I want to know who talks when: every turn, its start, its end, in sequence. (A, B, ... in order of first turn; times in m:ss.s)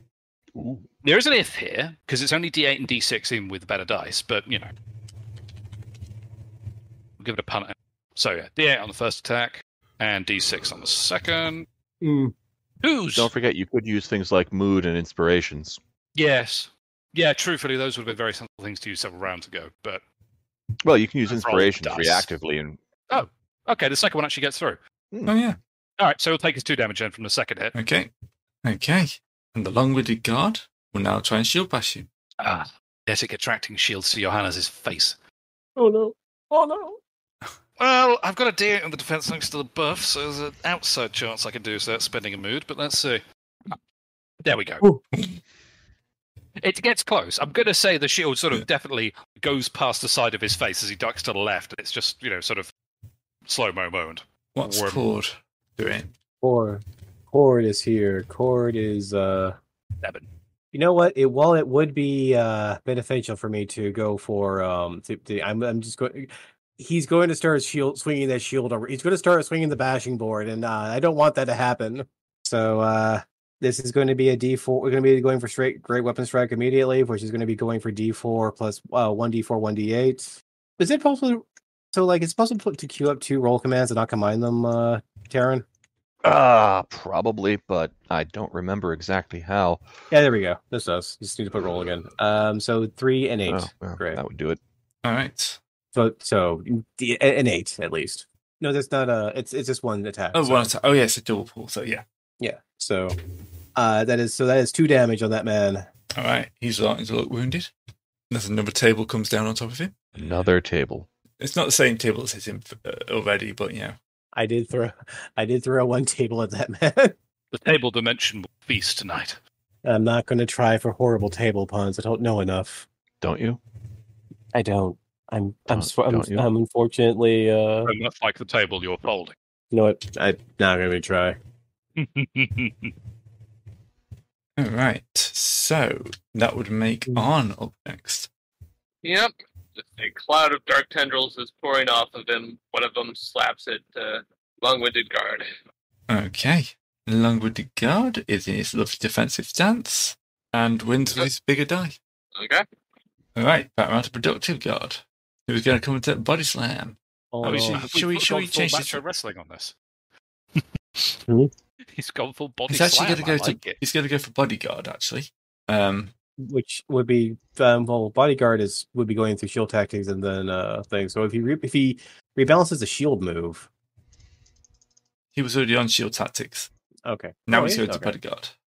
0:00.6-0:00.9 A
0:01.0-0:04.7 B
0:07.2-0:11.7 B
0:12.0-0:12.3 C
0:12.8-0:13.3 B
0:13.2-0:15.8 A
0:16.2-0:20.0 B
0:20.8-0:22.8 A
0:21.3-0:22.3 B
0:23.1-0:24.8 B
0:25.3-0:25.6 D
0:26.0-0:27.7 B
0:27.8-0:28.1 D
0:28.6-0:32.1 D
0:32.4-0:35.2 B
0:35.8-0:37.0 C
0:37.8-0:43.8 B
0:44.4-0:44.8 B
0:45.1-0:45.4 D
0:46.6-0:52.7 B
0:53.5-0:55.0 B
0:54.6-0:56.1 D
0:56.4-0:59.6 C
1:00.0-1:00.3 B
1:00.7-1:25.6 C
1:26.2-1:29.8 A
1:30.1-1:34.2 C
1:33.5-1:34.6 A
1:35.0-1:35.6 D
1:36.0-1:40.7 C
1:40.3-1:42.0 D
1:42.4-1:43.2 C
1:43.8-1:45.9 C
1:46.2-1:47.7 D
1:48.3-1:49.9 D
1:50.2-1:51.1 A
1:51.4-1:54.0 D
1:54.3-1:57.1 C
1:57.5-1:59.4 B
1:59.8-2:02.9 C
2:03.2-2:03.6 A
2:04.5-2:07.9 C
2:05.7-2:06.5 A
2:07.9-2:09.4 B
2:09.7-2:11.4 C
2:12.0-2:12.9 B
2:14.6-2:18.3 D
2:19.0-2:25.5 E
2:26.1-2:32.0 D
2:32.4-2:32.6 E
2:33.4-2:39.0 D
2:37.3-2:37.9 C
2:37.4-2:39.8 B
2:40.6-2:41.2 B
2:41.9-2:43.8 B
2:42.7-2:46.1 D
2:46.4-2:53.7 C
2:55.3-2:56.7 D
2:57.1-2:58.1 C
2:57.5-2:58.5 D